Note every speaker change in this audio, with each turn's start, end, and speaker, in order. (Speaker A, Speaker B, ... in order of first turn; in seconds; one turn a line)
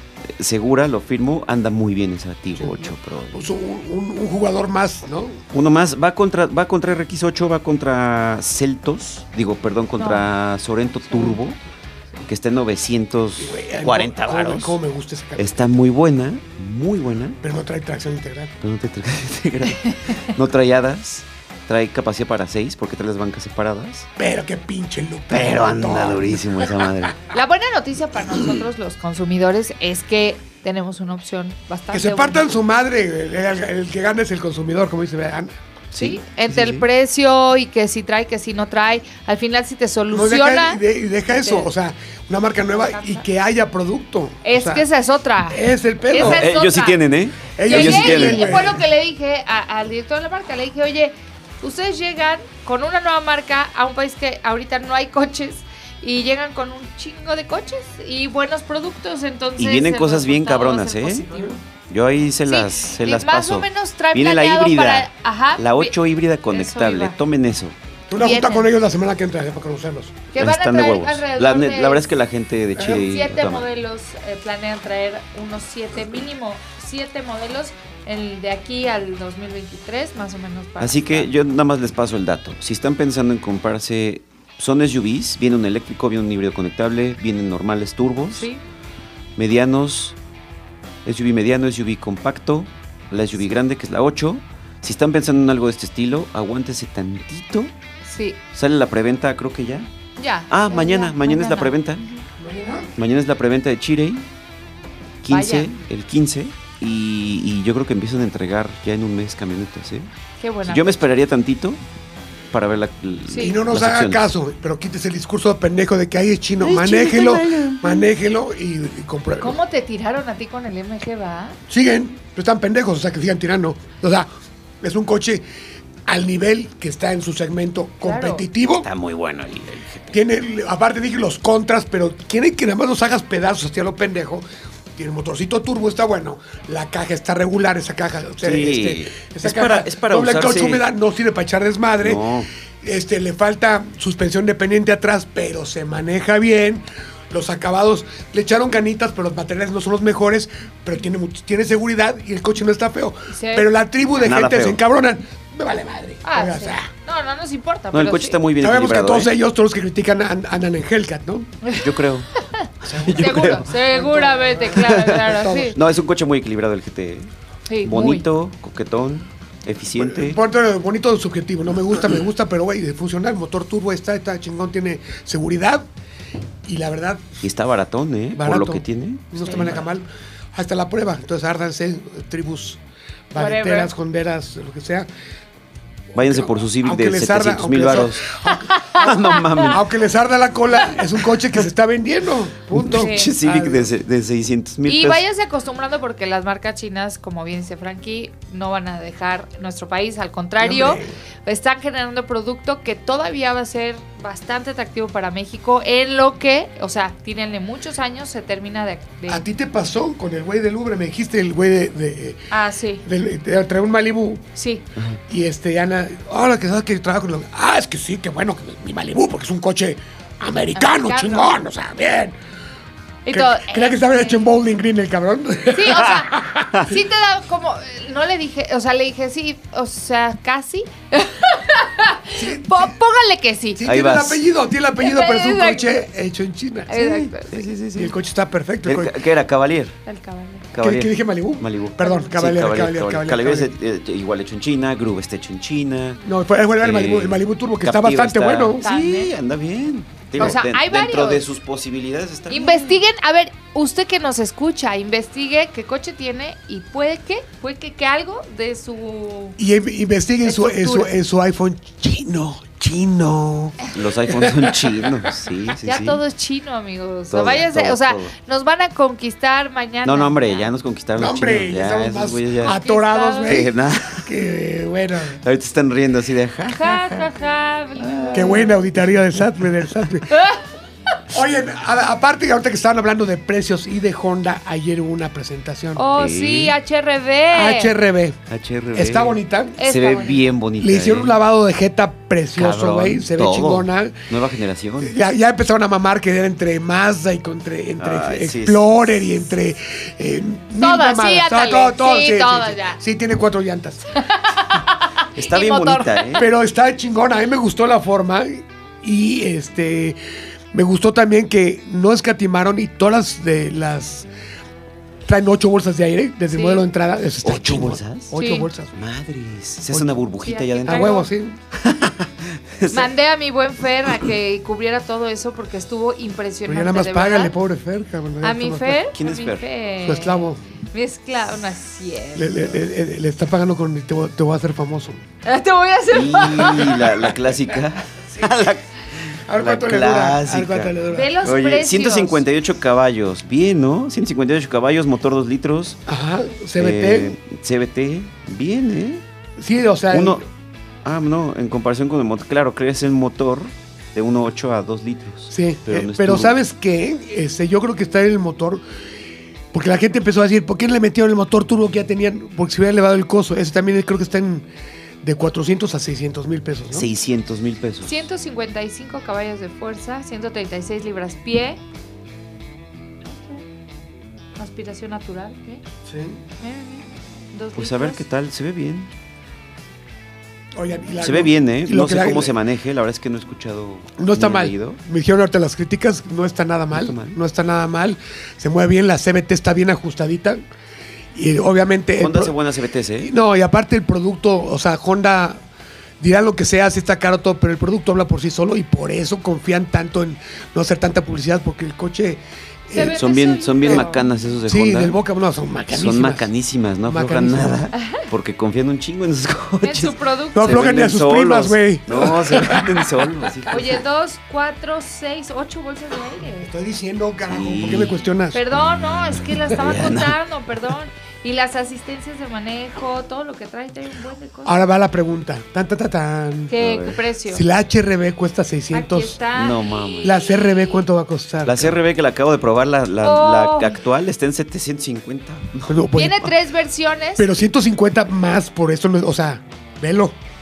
Speaker A: 0.4-3.4
Speaker B: 2.6-5.4
Speaker A: 5.5-11.6
Speaker C: 10.0-10.3
Speaker C: 11.1-11.4
Speaker A: 12.3-14.8
Speaker B: 13.4-15.6
Speaker A: 15.4-17.4
Speaker B: 17.4-18.5
Speaker A: 18.6-24.1
Speaker C: 19.8-20.2
Speaker B: 24.2-26.9
Speaker A: 25.3-27.2
Speaker C: 27.3-32.5
Speaker B: 31.9-35.6
Speaker A: 35.9-36.9
Speaker C: 36.0-41.7
Speaker B: 40.1-44.9
Speaker C: 42.7-43.2
Speaker C: 44.4-47.0
Speaker B: 45.5-46.5
Speaker A: 46.2-48.7
Speaker B: 47.6-48.8
Speaker C: 47.7-61.6
Speaker A: 59.6-61.3
Speaker B: 61.3-61.6
Speaker A: 61.9-67.8
Speaker C: 62.5-65.9
Speaker C: 66.5-67.2
Speaker B: 68.1-70.3
Speaker C: 68.2-68.7
Speaker C: 70.3-72.0
Speaker A: 70.4-73.7
Speaker B: 72.8-73.1
Speaker C: 72.9-81.3
Speaker A: 80.8-88.5
Speaker C: 88.3-88.6
Speaker A: 89.4-90.2
Speaker A: 91.0-97.7
Speaker C: 98.0-98.4
Speaker A: 98.5-99.9
Speaker C: 100.2-101.8
Speaker A: 100.5-102.0
Speaker B: 102.4-102.9
Speaker A: 103.0-104.3
Speaker A: 105.2-110.1
Speaker C: 105.3-105.7
Speaker C: 110.4-111.0
Speaker A: 110.7-111.8
Speaker A: 112.5-114.2
Speaker C: 113.3-113.6
Speaker B: 113.4-119.6
Speaker A: 116.6-117.9
Speaker C: 119.4-121.6
Speaker B: 121.7-124.3
Speaker B: 124.8-125.5
Speaker B: 126.1-128.9
Speaker C: 128.0-128.4
Speaker A: 128.8-130.2
Speaker B: 130.1-142.2
Speaker A: 138.4-140.8
Speaker A: 142.0-142.5
Speaker B: 142.8-156.9
Speaker C: 153.3-153.7
Speaker A: 154.2-154.8
Speaker C: 156.2-158.4
Speaker A: 157.9-159.3
Speaker B: 158.6-161.6
Speaker A: 161.7-162.3
Speaker C: 162.4-165.8
Speaker A: 162.8-163.7
Speaker B: 162.8-165.8
Speaker A: 164.7-167.3
Speaker C: 167.7-168.3
Speaker A: 167.8-170.4
Speaker B: 169.9-175.9
Speaker B: 176.6-177.4
Speaker A: 177.4-179.8
Speaker B: 178.4-182.8
Speaker C: 179.4-179.7
Speaker B: 183.3-185.1
Speaker C: 183.4-183.9
Speaker A: 186.1-188.3
Speaker B: 186.2-188.7
Speaker C: 188.5-189.7
Speaker A: 188.9-189.9
Speaker B: 189.6-193.9
Speaker A: 192.8-195.2
Speaker C: 192.9-193.3
Speaker C: 194.9-209.4
Speaker B: 200.6-201.1
Speaker B: 209.3-212.5
Speaker C: 212.5-213.0
Speaker B: 213.1-214.5
Speaker C: 214.6-214.8
Speaker B: 215.3-222.4
Speaker C: 220.8-221.5
Speaker C: 223.3-224.4
Speaker B: 223.3-226.7
Speaker C: 225.7-233.8
Speaker B: 232.4-232.9
Speaker B: 233.8-237.0
Speaker A: 233.8-234.4
Speaker C: 235.0-236.1
Speaker C: 236.9-237.7
Speaker A: 237.0-238.2
Speaker B: 237.9-239.2
Speaker A: 238.8-240.0
Speaker C: 240.1-240.7
Speaker A: 240.7-246.2
Speaker B: 240.8-243.7
Speaker B: 246.2-248.8
Speaker A: 246.8-253.0
Speaker C: 248.8-249.3
Speaker C: 250.4-251.5
Speaker C: 252.5-259.6
Speaker B: 259.6-265.3
Speaker C: 260.4-261.1
Speaker A: 263.9-266.2
Speaker C: 265.8-270.7
Speaker A: 267.3-268.3
Speaker A: 270.0-272.8
Speaker B: 271.2-275.4
Speaker C: 272.6-273.6
Speaker A: 273.4-274.3
Speaker A: 275.4-277.3
Speaker C: 276.7-278.8
Speaker A: 278.0-279.4
Speaker B: 278.3-280.4
Speaker C: 280.3-280.6
Speaker B: 281.3-286.1
Speaker C: 286.0-287.9
Speaker A: 286.1-286.8
Speaker B: 287.5-288.4
Speaker A: 288.5-291.4
Speaker B: 288.9-289.8
Speaker C: 289.8-290.4
Speaker B: 290.8-294.3
Speaker A: 292.6-295.2
Speaker B: 295.0-304.2
Speaker A: 298.0-298.9
Speaker C: 300.8-303.0
Speaker C: 304.1-306.4
Speaker A: 305.4-306.5
Speaker B: 306.4-310.2
Speaker B: 310.7-314.3
Speaker B: 315.3-318.9
Speaker C: 316.5-316.8
Speaker A: 317.4-318.4
Speaker C: 318.4-318.7
Speaker A: 318.9-323.1
Speaker B: 319.9-320.2
Speaker C: 320.4-321.3
Speaker B: 320.9-321.6
Speaker C: 322.9-327.5
Speaker B: 326.7-329.1
Speaker C: 328.4-332.8
Speaker A: 329.1-329.6
Speaker B: 330.0-330.6
Speaker B: 332.4-335.2
Speaker C: 335.4-337.2
Speaker A: 336.1-346.0
Speaker B: 339.5-341.4
Speaker C: 341.1-342.4
Speaker B: 346.1-347.4
Speaker A: 346.8-349.2
Speaker B: 349.6-350.4
Speaker A: 350.1-350.4
Speaker A: 351.1-356.6
Speaker B: 355.5-358.8
Speaker B: 359.7-364.7
Speaker B: 365.2-367.1
Speaker A: 366.9-368.1
Speaker C: 368.0-371.8
Speaker C: 373.3-373.6
Speaker C: 374.6-375.8
Speaker B: 376.1-376.4
Speaker C: 376.6-378.2
Speaker A: 377.8-379.1
Speaker B: 380.8-382.6
Speaker A: 381.2-385.0
Speaker B: 384.2-390.6
Speaker A: 386.9-387.4
Speaker B: 391.4-392.6
Speaker A: 392.2-393.3
Speaker B: 393.2-395.6
Speaker B: 396.2-403.2
Speaker C: 402.9-404.3
Speaker A: 403.0-405.2
Speaker B: 403.9-404.1
Speaker B: 404.7-406.5
Speaker A: 405.9-413.9
Speaker B: 407.1-407.9
Speaker C: 407.9-408.2
Speaker C: 409.8-410.7
Speaker B: 410.5-413.5
Speaker C: 413.7-416.7
Speaker B: 416.6-418.6
Speaker A: 417.5-418.2
Speaker C: 418.5-424.8
Speaker A: 419.7-420.4
Speaker B: 424.6-426.8
Speaker C: 426.7-427.6
Speaker A: 426.8-427.2
Speaker B: 427.5-429.4
Speaker C: 428.9-430.8
Speaker A: 429.5-430.4
Speaker B: 430.2-432.0
Speaker A: 431.6-436.0
Speaker C: 433.2-434.0
Speaker B: 435.9-436.5
Speaker C: 436.2-437.5
Speaker B: 437.4-440.4